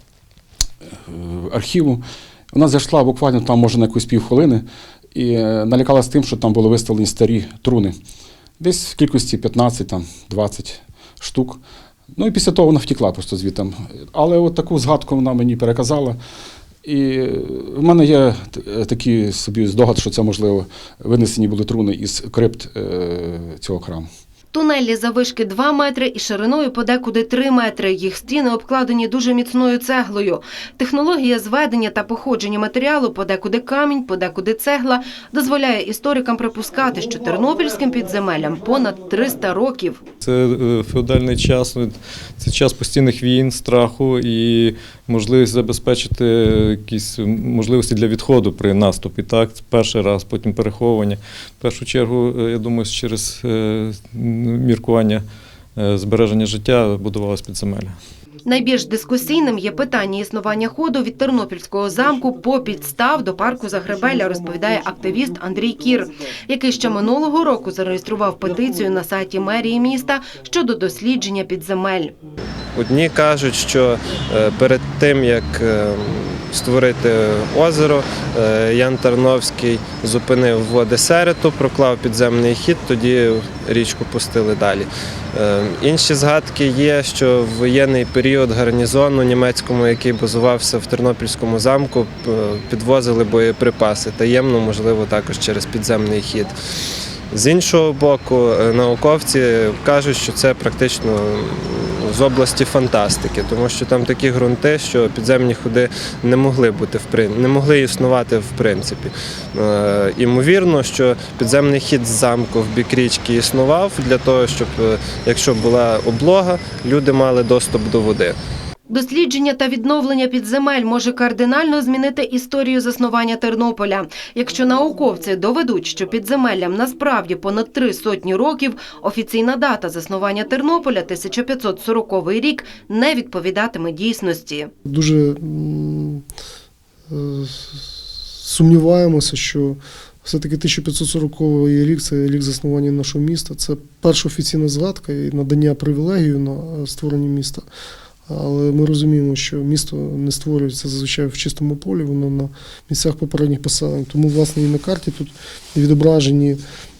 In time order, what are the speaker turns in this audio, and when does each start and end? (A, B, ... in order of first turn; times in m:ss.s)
0:01.1-0:08.0 A
0:08.6-0:11.6 A
0:12.2-0:16.2 A
0:16.8-0:24.1 A
0:24.5-0:40.0 B
0:40.2-0:55.2 C
0:55.8-0:58.0 C
0:58.4-1:12.1 B
1:12.8-1:36.5 D
1:37.3-1:58.4 D
1:58.9-2:14.7 B
2:14.9-2:16.2 E
2:17.1-2:17.8 E
2:18.4-2:27.6 E
2:28.3-2:36.6 E